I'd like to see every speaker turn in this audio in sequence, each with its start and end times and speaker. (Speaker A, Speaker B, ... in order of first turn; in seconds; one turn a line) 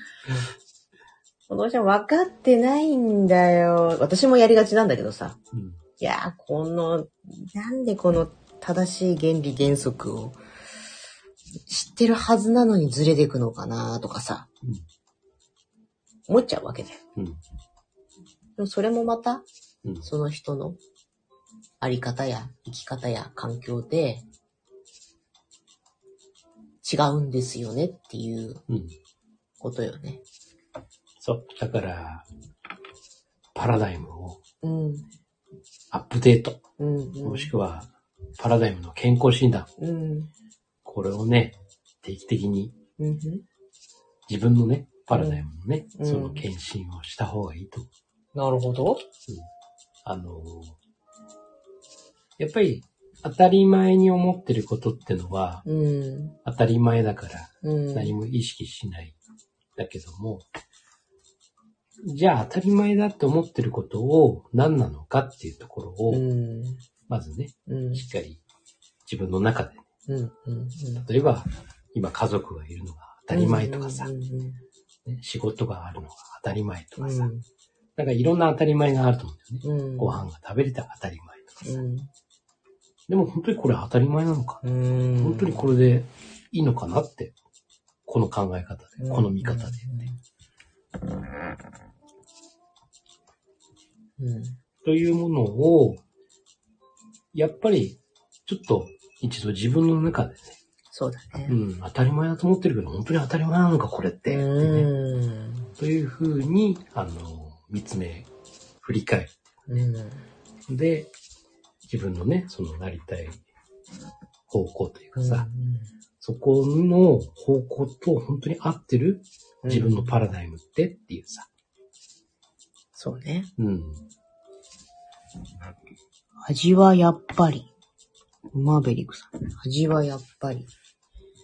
Speaker A: 1.5-5.4
Speaker B: 5.5-5.8
Speaker A: 6.0-10.4
Speaker A: 11.7-14.5
Speaker A: 16.3-17.0
Speaker A: 18.6-19.4
Speaker A: 20.0-20.8
Speaker A: 21.8-24.2
Speaker A: 26.8-28.6
Speaker B: 28.7-28.9
Speaker A: 29.6-30.2
Speaker B: 31.2-32.3
Speaker B: 33.5-34.4
Speaker A: 34.6-35.1
Speaker B: 35.9-36.6
Speaker A: 36.8-37.5
Speaker B: 37.2-39.7
Speaker A: 39.8-40.3
Speaker B: 40.8-42.8
Speaker A: 43.0-43.4
Speaker B: 44.3-47.9
Speaker A: 45.1-46.5
Speaker A: 48.4-49.0
Speaker B: 50.0-50.8
Speaker B: 52.4-55.7
Speaker A: 55.7-56.4
Speaker B: 56.5-59.2
Speaker A: 57.6-58.1
Speaker B: 59.8-60.5
Speaker B: 62.0-66.2
Speaker A: 66.1-66.8
Speaker B: 67.1-68.4
Speaker A: 67.7-68.1
Speaker B: 69.1-69.8
Speaker A: 70.1-71.1
Speaker B: 71.0-74.1
Speaker A: 73.3-74.6
Speaker B: 75.0-77.3
Speaker A: 77.0-77.5
Speaker B: 78.0-81.6
Speaker A: 79.6-80.3
Speaker A: 81.6-82.1
Speaker B: 83.1-84.6
Speaker A: 84.6-85.7
Speaker B: 85.2-87.3
Speaker B: 88.1-90.1
Speaker A: 89.0-90.2
Speaker A: 94.2-94.6
Speaker B: 94.8-96.0
Speaker B: 97.3-100.6
Speaker A: 100.9-101.6
Speaker B: 101.5-104.9
Speaker A: 104.3-105.7
Speaker B: 105.8-108.3
Speaker B: 108.8-109.9
Speaker A: 109.7-110.2
Speaker B: 110.7-111.1
Speaker B: 111.8-113.4
Speaker B: 114.5-115.5
Speaker A: 115.2-115.9
Speaker B: 116.2-121.5
Speaker A: 119.6-120.1
Speaker A: 123.0-123.5
Speaker B: 123.6-124.1
Speaker A: 126.5-127.7
Speaker A: 128.5-130.7